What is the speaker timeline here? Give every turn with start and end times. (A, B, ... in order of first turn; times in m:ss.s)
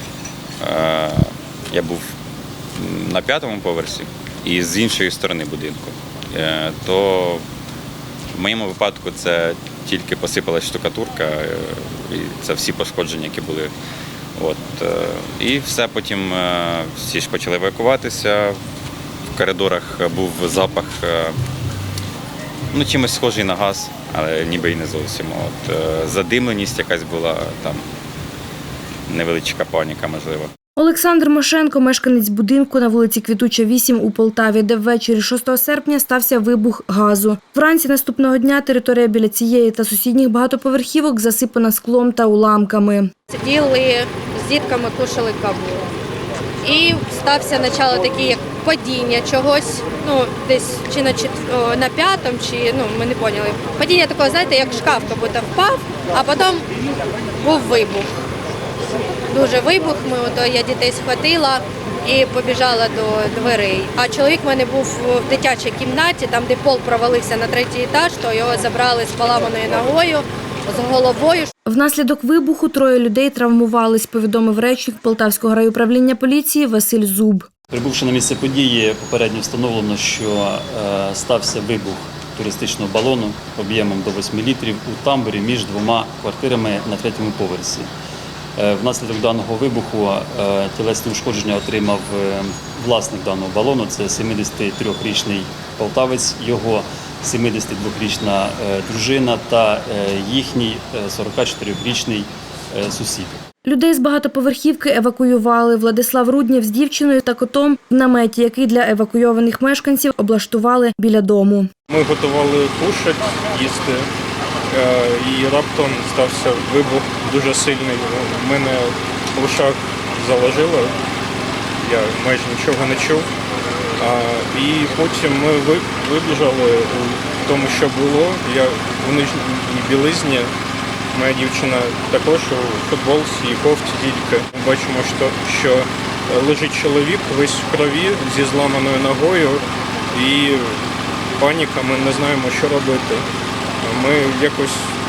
0:00.6-0:02.0 A
0:02.8-0:07.4 A
0:08.3-0:13.7 A
0:14.4-0:18.6 A
0:19.4-0:21.3 A
0:22.7-0:27.8 A
0:29.1-0:30.5 A
0:30.8-0:43.1 B
0:43.3-0:45.8 C
0:46.6-0:56.6 C
0:57.4-0:58.1 C
0:59.3-1:11.5 C
1:11.6-1:17.5 B
1:17.7-1:27.9 D
1:28.6-1:43.4 D
1:43.6-1:51.7 B
1:51.9-1:54.1 E
1:54.7-2:00.9 E
2:01.8-2:03.3 E
2:04.0-2:10.5 E
2:11.1-2:20.8 E
2:21.4-2:23.2 E
2:23.8-2:24.9 E